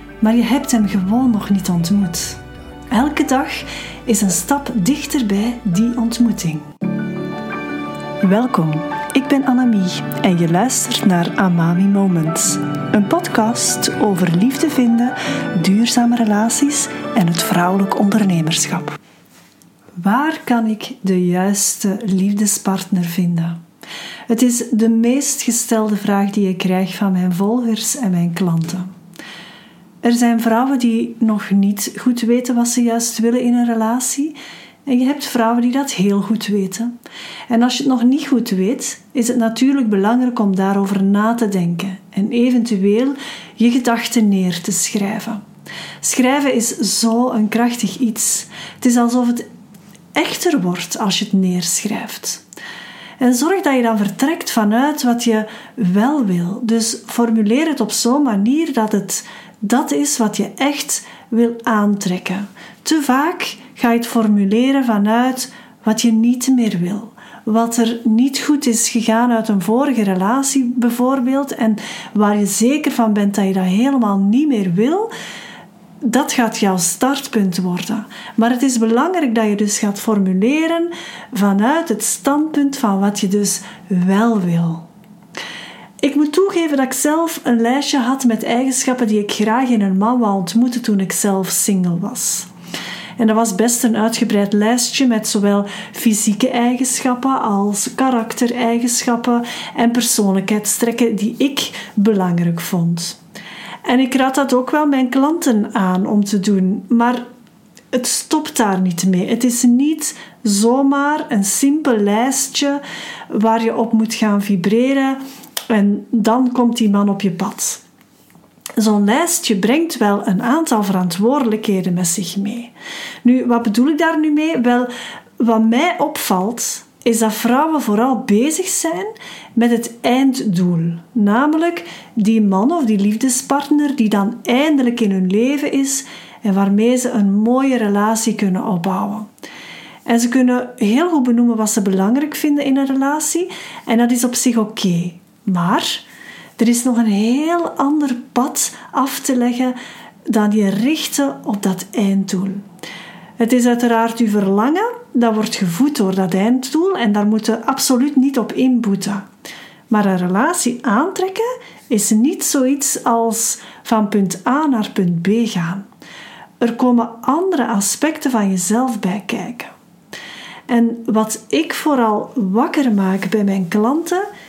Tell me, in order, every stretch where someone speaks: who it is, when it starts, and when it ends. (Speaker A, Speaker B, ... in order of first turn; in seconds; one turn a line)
Speaker A: 0.2-2.4
Speaker A: 2.9-6.7
Speaker A: 8.2-19.0
Speaker A: 20.0-23.6
Speaker A: 24.3-28.9
Speaker A: 30.0-34.4
Speaker A: 34.9-36.9
Speaker A: 37.5-45.4
Speaker A: 46.0-49.5
Speaker A: 50.1-52.4
Speaker A: 53.2-75.1
Speaker A: 76.0-84.9
Speaker A: 86.0-92.5
Speaker A: 93.2-103.2
Speaker A: 103.8-107.2
Speaker A: 107.9-117.8
Speaker A: 118.8-122.7
Speaker A: 123.2-139.3
Speaker A: 140.1-146.0
Speaker A: 146.6-152.6
Speaker A: 153.4-159.3
Speaker A: 159.9-165.9
Speaker A: 166.6-169.7
Speaker A: 170.7-174.3